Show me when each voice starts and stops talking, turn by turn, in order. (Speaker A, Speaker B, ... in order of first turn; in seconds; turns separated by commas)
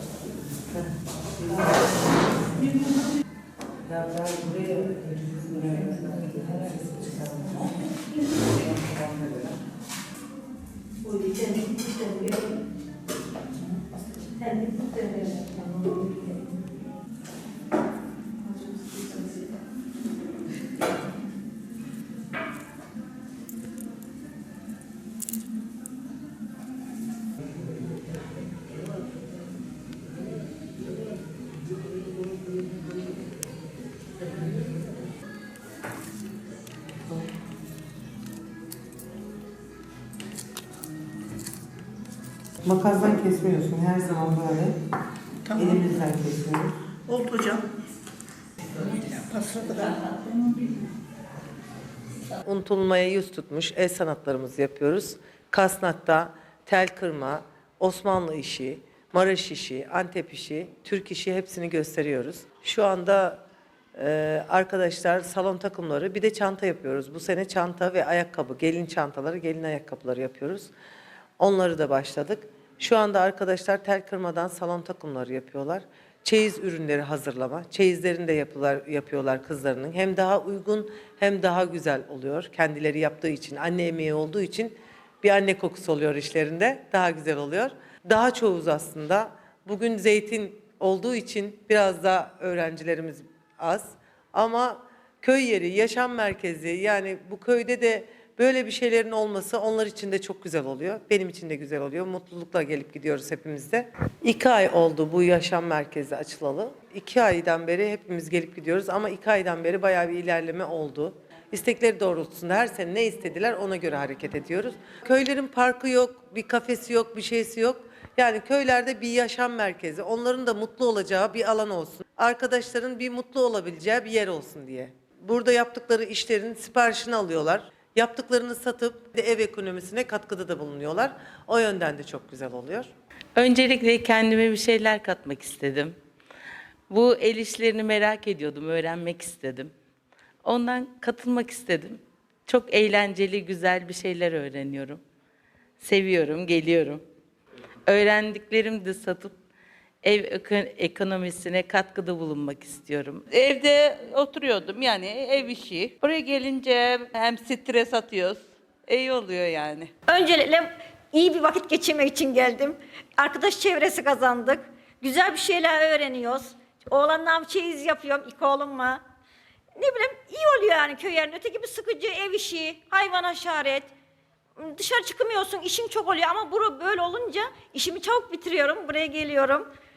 Speaker A: 0.7-1.9, Speaker A: 3.9-5.1, Speaker B: 5.2-6.6, Speaker A: 6.1-7.5, Speaker A: 9.1-9.4, Speaker A: 42.6-44.8, Speaker A: 45.6-46.7, Speaker C: 47.1-47.6, Speaker C: 48.8-50.1, Speaker A: 52.4-63.4, Speaker A: 64.0-70.7, Speaker A: 71.4-132.9, Speaker B: 133.4-135.9, Speaker B: 136.9-139.7, Speaker B: 140.4-145.0, Speaker B: 145.8-147.0, Speaker B: 147.9-149.3, Speaker B: 150.0-153.2, Speaker D: 153.3-159.9, Speaker E: 160.1-169.0, Speaker E: 169.8-173.9, Speaker E: 174.6-179.7